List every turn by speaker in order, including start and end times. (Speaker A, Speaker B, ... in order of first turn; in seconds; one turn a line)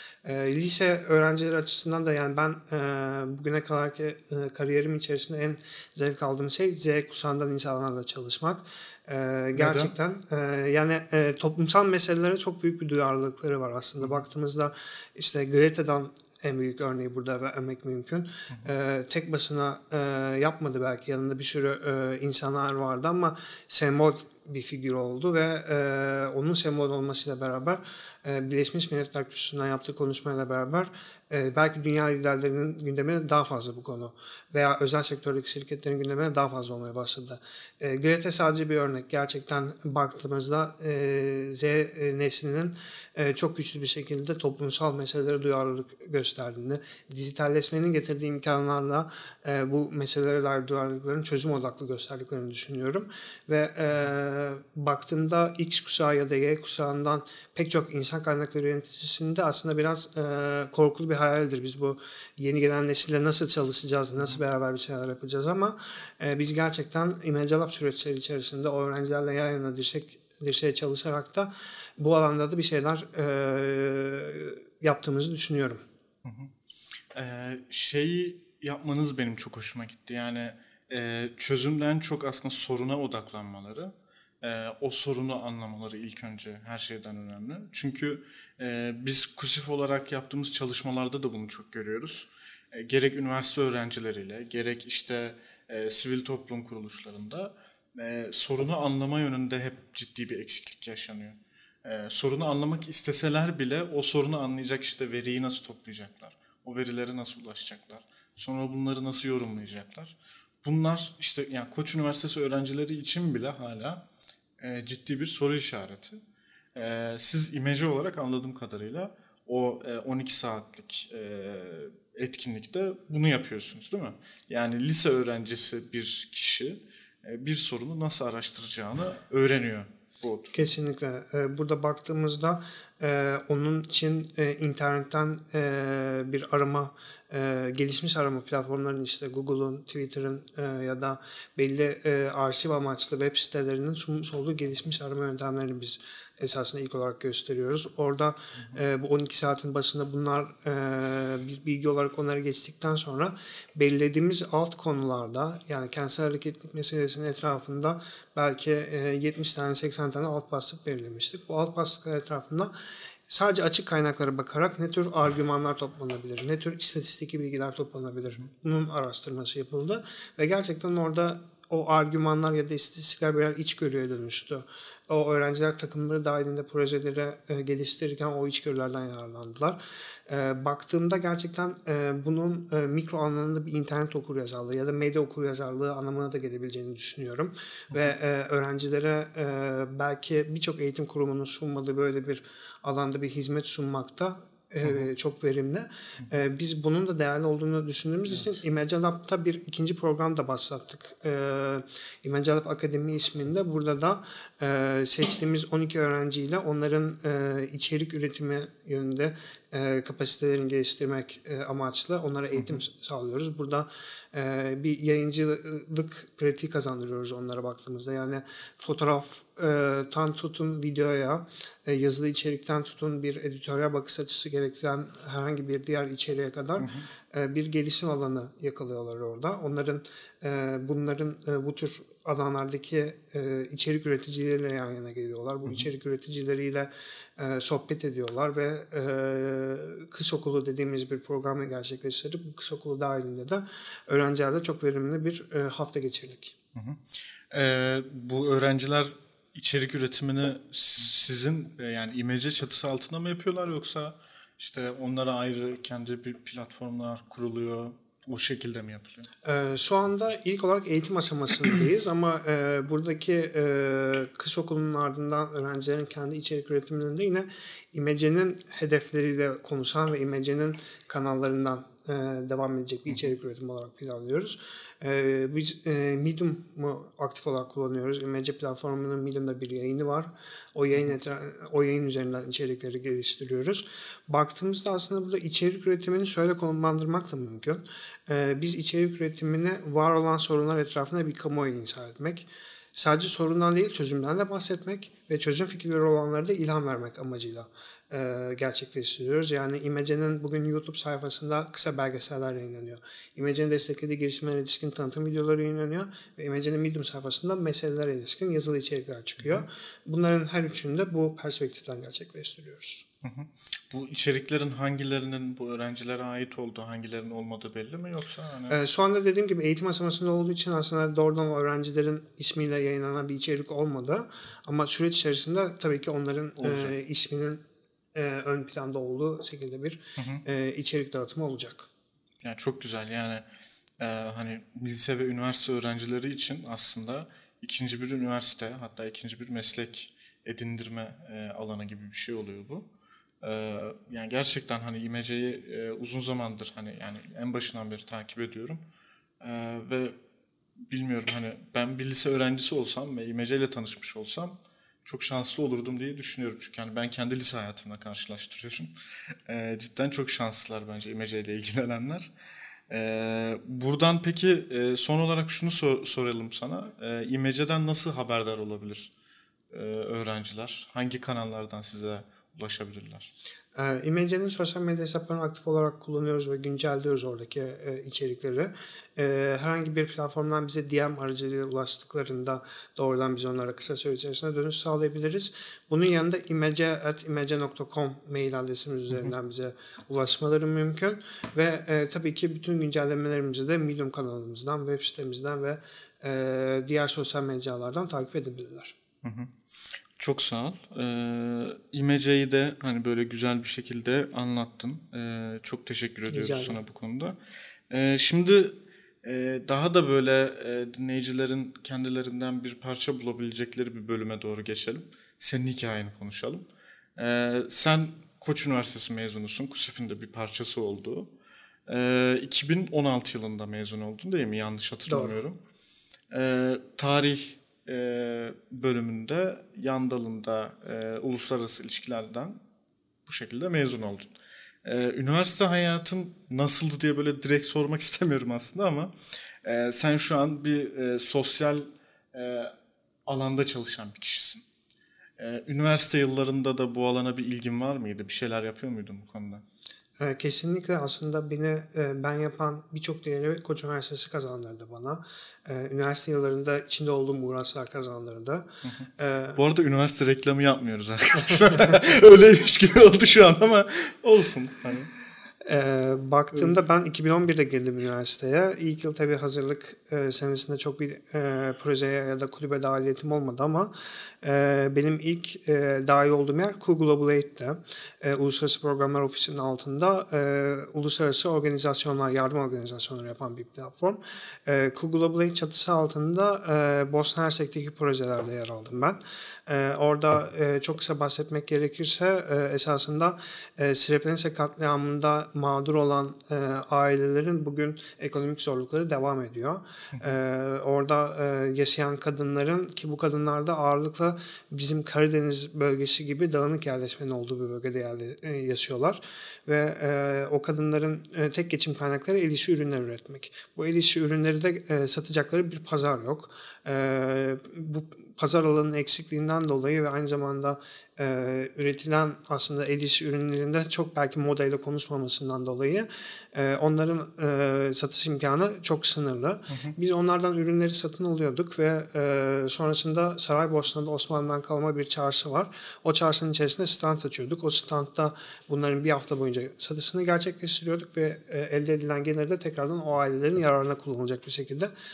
Speaker A: 0.2-75.8
Speaker B: 9.6-9.9
Speaker B: 76.2-76.5
Speaker B: 77.1-114.1
Speaker B: 114.6-116.2
Speaker B: 116.8-130.7
Speaker A: 130.5-162.7
Speaker A: 163.3-246.5
Speaker B: 226.8-227.1
Speaker B: 246.8-259.3
Speaker A: 259.4-313.1
Speaker B: 309.4-309.7
Speaker B: 313.2-318.8
Speaker A: 318.7-327.6
Speaker B: 326.6-326.9
Speaker A: 328.1-331.9
Speaker B: 330.2-330.4
Speaker B: 332.4-333.5
Speaker B: 334.0-342.9
Speaker B: 343.4-348.8
Speaker B: 349.4-350.2
Speaker B: 350.9-362.3
Speaker B: 362.9-369.1
Speaker B: 369.7-373.3
Speaker A: 373.8-399.0
Speaker B: 399.2-407.4
Speaker A: 406.3-406.8
Speaker B: 407.9-421.3
Speaker B: 421.9-425.6
Speaker A: 425.1-425.4
Speaker B: 426.3-432.6
Speaker B: 433.3-434.3
Speaker B: 434.8-442.7
Speaker B: 443.3-444.6
Speaker B: 445.4-449.6
Speaker A: 450.2-459.6
Speaker B: 458.9-465.1
Speaker A: 465.7-473.9
Speaker A: 474.4-544.9
Speaker B: 529.7-530.0